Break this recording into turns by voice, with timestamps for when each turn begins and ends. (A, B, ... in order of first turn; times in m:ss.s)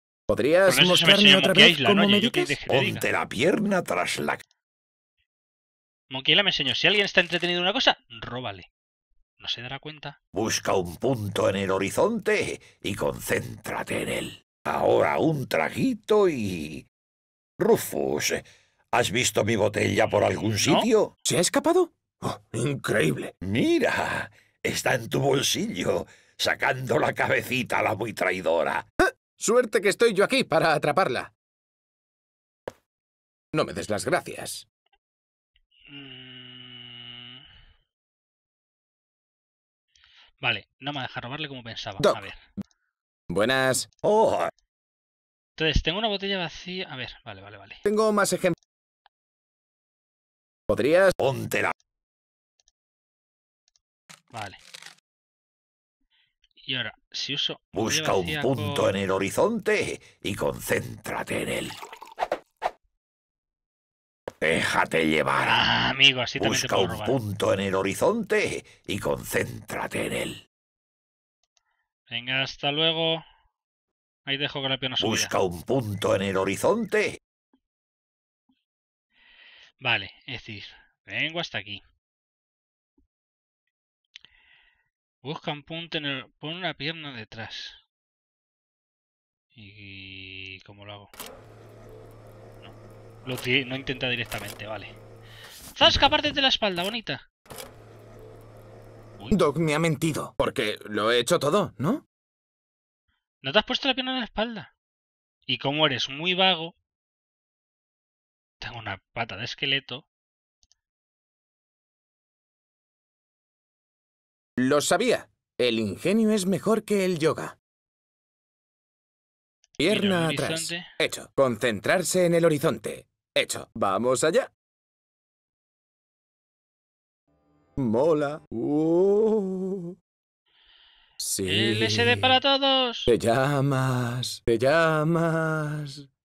0:00.3-0:02.6 A
0:00.7-0:03.0 B
0:02.7-0:04.4 C
0:06.1-0:08.7 B
0:09.4-0:10.2 B
0:10.3-0:16.8 C
0:17.6-0:21.1 C
0:20.0-0:20.9 B
0:21.2-0:23.3 A
0:23.4-0:28.8 C
0:29.3-0:31.3 A
0:33.5-0:34.6 A
0:35.9-0:37.4 B
0:40.4-0:42.4 B
0:42.0-0:42.3 A
0:43.3-0:43.9 A
0:44.0-0:44.5 C
0:45.6-0:47.8 B
0:47.8-0:48.6 A
0:50.7-0:51.1 A
0:51.2-0:51.7 C
0:54.3-0:54.6 B
0:56.6-0:58.9 B
0:57.7-1:01.8 C
1:04.4-1:05.6 C
1:05.4-1:07.2 B
1:06.4-1:10.4 C
1:12.1-1:13.2 B
1:14.2-1:15.3 B
1:15.0-1:17.2 C
1:19.8-1:21.8 B
1:25.2-1:27.8 B
1:29.5-1:31.1 B
1:32.6-1:35.0 B
1:35.7-1:37.2 B
1:39.2-1:39.4 B
1:39.3-1:42.0 A
1:43.4-1:44.7 B
1:45.5-1:46.7 B
1:48.6-1:50.0 B
1:54.6-1:57.6 A
1:59.8-2:04.5 A
1:59.9-2:00.9 B
2:07.8-2:09.9 A
2:11.2-2:12.4 A
2:11.4-2:13.1 B
2:13.1-2:16.1 A